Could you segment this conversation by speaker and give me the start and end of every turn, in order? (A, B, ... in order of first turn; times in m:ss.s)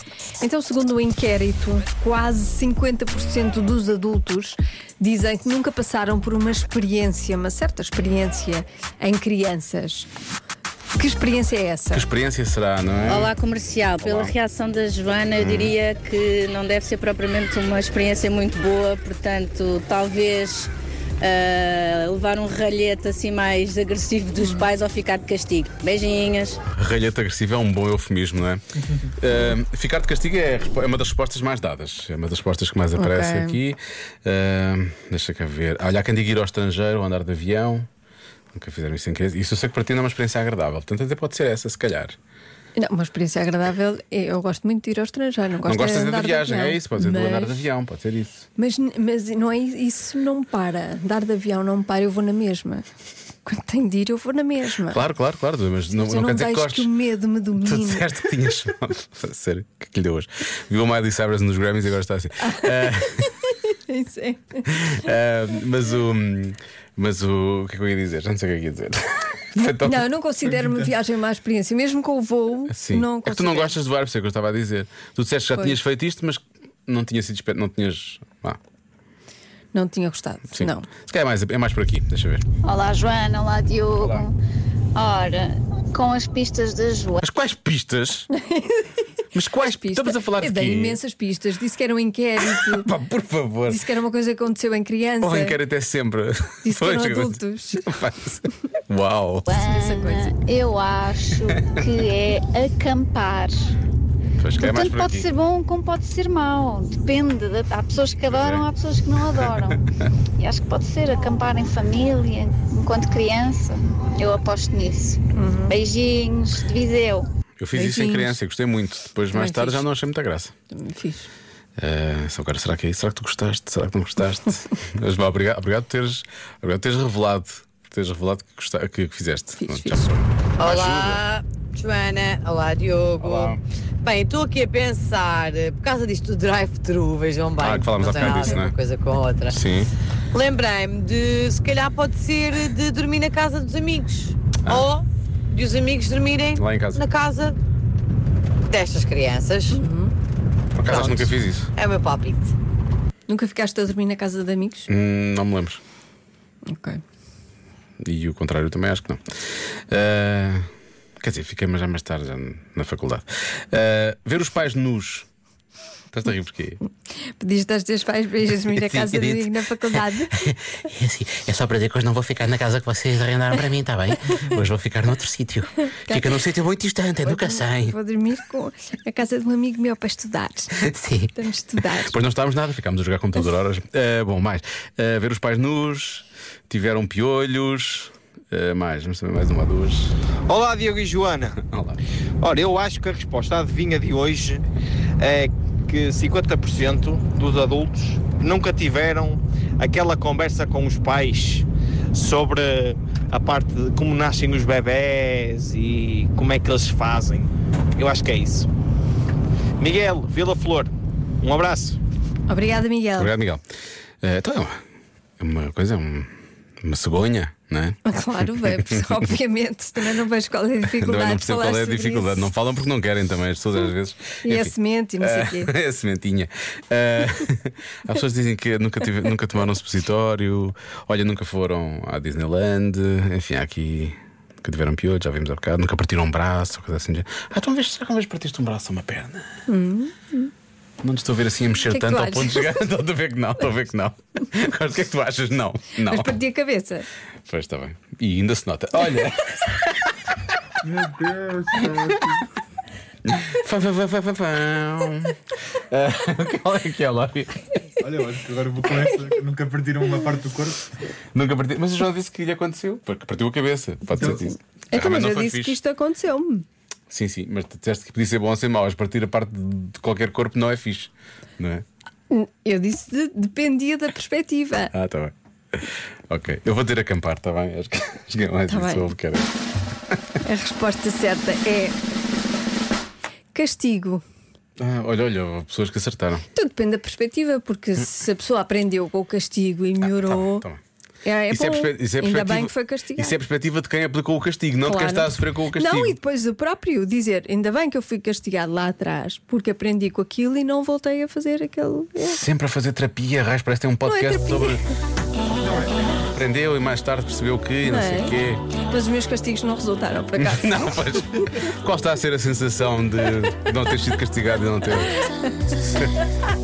0:00.4-0:10.1 A
0:11.0-0:12.1 A
0:11.9-0:13.3 B
0:13.0-0:20.7 C
0:14.0-0:14.3 B
0:15.4-0:15.7 B
0:21.2-0:26.6 C
0:24.4-0:24.7 A
0:26.7-0:37.9 B
0:33.0-0:33.6 A
0:38.5-0:42.2 B
0:42.8-0:47.7 A
0:45.6-0:48.5 B
0:48.6-0:52.8 A
0:53.4-0:55.0 A
0:54.9-0:56.9 B
0:56.0-0:58.1 A
0:57.6-1:03.4 B
1:02.4-1:05.1 A
1:04.7-1:10.1 B
1:09.6-1:13.8 A
1:12.7-1:18.6 B
1:19.7-1:20.9 A
1:20.5-1:22.4 B
1:22.6-1:24.3 D
1:24.0-1:24.3 B
1:25.0-1:27.2 D
1:27.2-1:28.3 B
1:28.4-1:29.0 A
1:29.3-1:31.0 B
1:29.6-1:32.9 A
1:32.4-1:33.9 B
1:33.7-1:35.6 A
1:35.2-1:39.6 B
1:36.6-1:37.9 A
1:39.5-1:43.7 D
1:39.6-1:40.3 A
1:44.4-1:45.3 B
1:44.6-1:49.8 D
1:48.3-1:48.7 B
1:50.4-1:57.3 D
1:55.4-1:55.8 A
1:57.6-2:00.5 B
1:57.7-1:58.4 A
1:59.3-1:59.9 A
2:00.7-2:01.3 A
2:01.8-2:11.2 B
2:09.6-2:10.1 A
2:10.6-2:19.6 E
2:13.2-2:13.6 B
2:17.6-2:18.7 B
2:19.5-2:19.9 B
2:20.3-2:27.6 E
2:24.6-2:24.9 B
2:26.6-2:27.0 B
2:28.7-2:29.8 E
2:29.7-2:30.1 A
2:30.8-2:31.7 B
2:30.9-2:32.6 E
2:33.3-2:34.9 A
2:34.9-2:35.8 B
2:36.7-2:37.0 A
2:38.0-2:40.7 B
2:41.2-2:45.3 B
2:46.1-2:46.8 B
2:47.2-2:50.3 A
2:48.9-2:49.4 B
2:50.9-2:57.9 F
2:52.8-2:55.6 B
2:56.1-2:56.3 A
2:57.0-2:57.9 B
2:57.2-3:02.2 A
3:01.0-3:01.3 F
3:02.0-3:10.1 B
3:10.5-3:11.6 G
3:11.6-3:12.0 B
3:12.4-3:14.6 G
3:15.2-3:28.7 G
3:29.8-3:30.9 G
3:31.4-3:32.0 G
3:32.5-3:33.3 A
3:33.2-3:33.6 B
3:34.2-3:34.8 B
3:35.4-3:39.2 B
3:38.0-3:42.5 A
3:40.9-3:59.6 B
3:44.4-3:45.7 A
3:59.7-4:00.5 A
4:01.0-4:06.4 B
4:01.8-4:02.8 A
4:06.0-4:07.1 A
4:07.5-4:10.1 B
4:10.8-4:12.4 H
4:11.9-4:12.3 B
4:13.3-4:17.6 B
4:18.0-4:20.9 H
4:21.3-4:25.8 B
4:24.9-4:26.6 A
4:27.1-4:31.8 B
4:32.3-4:34.9 A
4:34.9-4:39.5 B
4:38.7-4:39.2 A
4:40.4-4:42.0 A
4:43.5-4:44.2 A
4:44.8-4:46.4 B
4:46.5-4:50.7 A
4:50.0-4:50.8 B
4:51.2-4:53.4 A
4:51.5-4:56.2 B
4:54.8-5:02.4 A
5:02.2-5:04.9 B
5:04.0-5:04.9 A
5:05.6-5:06.0 H
5:06.2-5:08.7 B
5:07.8-5:11.0 A
5:10.4-5:15.2 B